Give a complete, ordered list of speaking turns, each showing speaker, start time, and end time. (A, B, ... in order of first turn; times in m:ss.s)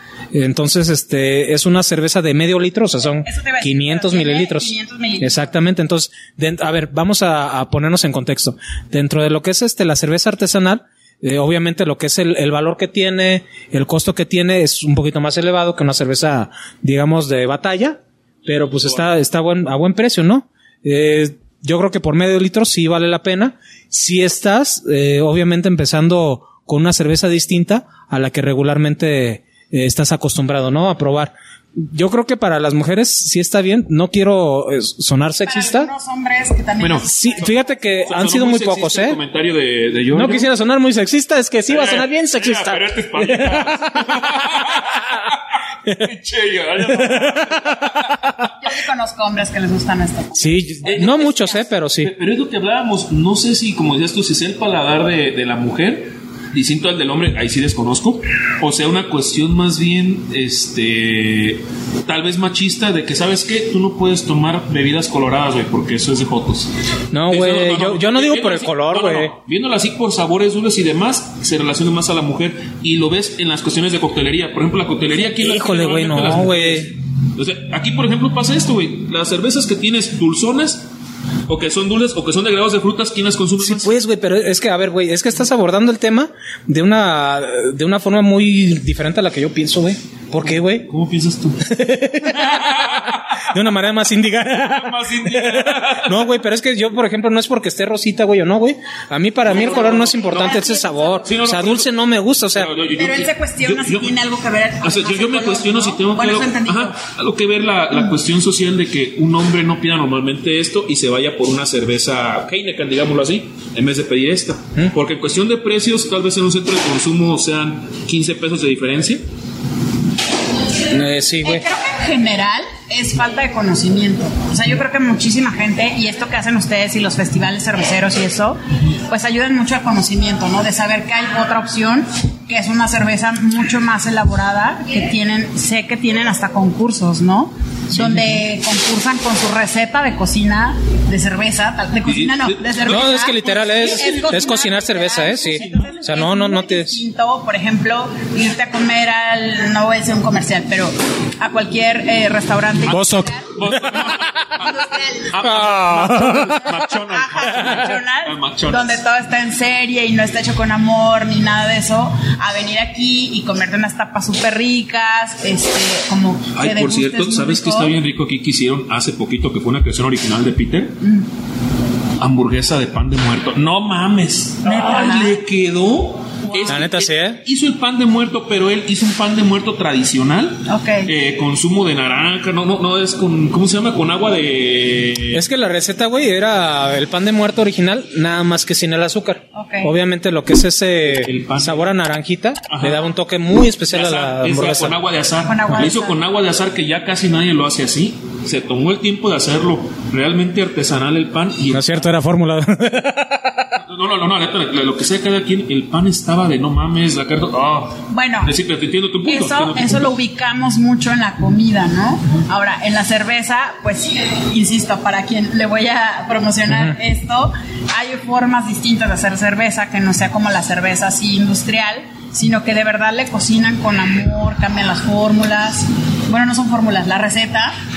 0:00.3-0:35.9 A
0:03.2-0:05.6 B
0:35.4-0:38.2 B
0:36.8-0:37.1 C
0:37.0-0:39.2 A
0:38.0-0:40.5 C
0:40.1-0:44.2 A
0:41.7-0:48.2 C
0:46.8-0:48.0 A
0:48.6-0:51.6 B
0:50.4-0:52.1 A
0:50.8-0:51.2 C
0:52.0-1:06.7 C
1:07.1-1:09.3 A
1:07.3-1:20.9 C
1:15.2-1:16.9 A
1:21.5-1:23.9 C
1:23.6-1:30.9 A
1:30.4-1:31.6 C
1:31.6-1:42.7 A
1:32.3-1:33.4 C
1:34.6-1:36.2 C
1:39.4-1:40.6 C
1:40.0-1:41.2 B
1:41.2-1:41.9 C
1:42.5-1:44.2 C
1:42.9-1:47.0 B
1:44.8-1:59.2 C
2:00.9-2:01.6 A
2:01.4-2:33.5 B
2:18.0-2:18.3 C
2:22.1-2:22.9 C
2:22.8-2:27.0 A
2:23.8-2:24.5 C
2:32.9-2:34.1 A
2:33.5-2:34.7 C
2:34.6-2:35.6 B
2:35.3-2:39.0 C
2:35.4-2:36.8 A
2:37.1-2:47.9 B
2:46.5-2:51.0 C
2:51.0-2:51.2 B
2:52.2-3:05.4 C
2:54.6-2:55.4 B
2:56.7-2:57.4 A
3:00.6-3:01.1 B
3:05.3-3:15.0 A
3:09.5-3:09.9 B
3:11.1-3:11.9 C
3:12.7-3:13.0 C
3:13.9-3:22.0 C
3:15.4-3:16.2 B
3:21.7-3:23.7 A
3:23.8-3:30.1 C
3:28.1-3:28.5 B
3:29.2-3:47.7 B